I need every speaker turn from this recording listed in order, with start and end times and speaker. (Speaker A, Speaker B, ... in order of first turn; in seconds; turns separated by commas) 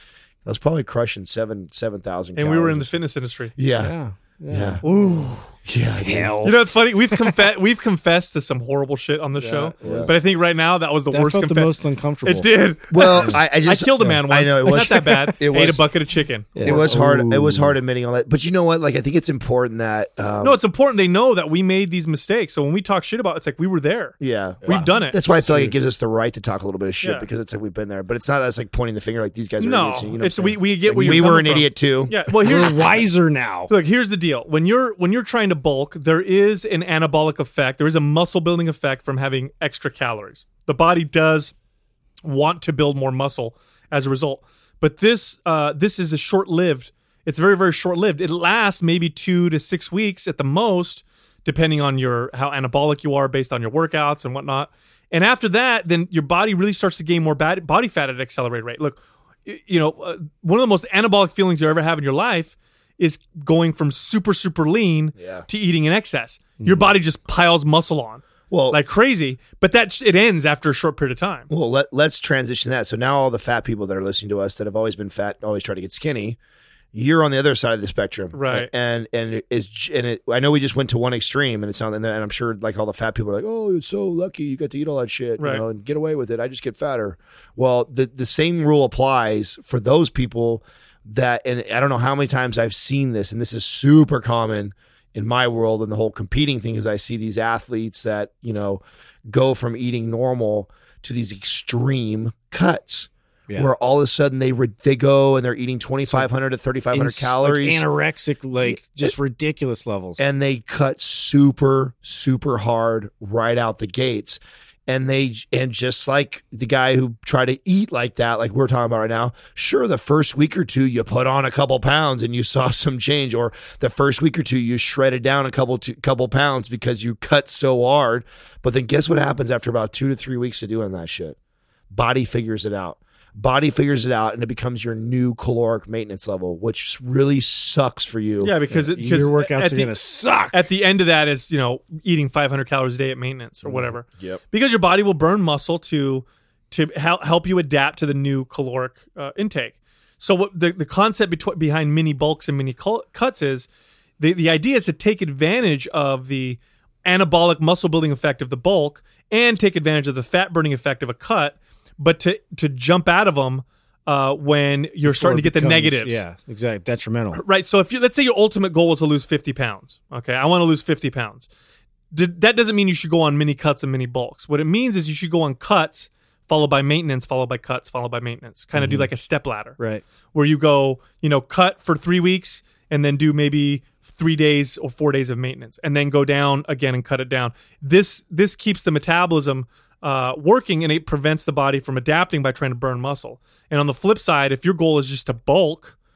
Speaker A: 0.5-3.0, Speaker B: 2.4-3.5, Speaker A: 3.6-4.0, Speaker C: 3.8-5.2, Speaker A: 4.5-4.8, Speaker B: 4.8-5.6, Speaker A: 5.7-6.3, Speaker C: 6.0-6.6, Speaker B: 6.4-11.7, Speaker C: 9.4-10.2, Speaker A: 9.8-10.1, Speaker C: 11.1-12.5, Speaker B: 12.3-16.8, Speaker A: 12.9-15.8, Speaker C: 13.1-13.3, Speaker C: 14.0-15.3, Speaker C: 16.6-17.8, Speaker A: 16.6-20.6, Speaker B: 20.4-25.2, Speaker A: 24.2-32.7, Speaker C: 24.6-25.8, Speaker B: 27.0-27.3, Speaker B: 29.6-32.9, Speaker C: 32.4-33.7, Speaker B: 33.7-41.5, Speaker B: 42.2-71.5, Speaker A: 65.2-65.5, Speaker C: 66.6-66.9, Speaker A: 68.5-68.8, Speaker A: 71.5-76.4, Speaker A: 76.9-107.8, Speaker B: 78.3-78.7, Speaker B: 85.4-85.6, Speaker C: 106.9-110.3, Speaker A: 108.6-109.1, Speaker A: 110.2-131.4, Speaker A: 131.9-138.5, Speaker B: 138.4-139.9, Speaker C: 138.7-140.6, Speaker B: 140.5-153.7, Speaker A: 143.7-144.4, Speaker B: 154.2-166.2, Speaker C: 165.1-167.4, Speaker B: 167.3-171.5, Speaker B: 172.1-179.8, Speaker C: 178.7-179.1, Speaker C: 179.8-180.0, Speaker B: 180.3-195.9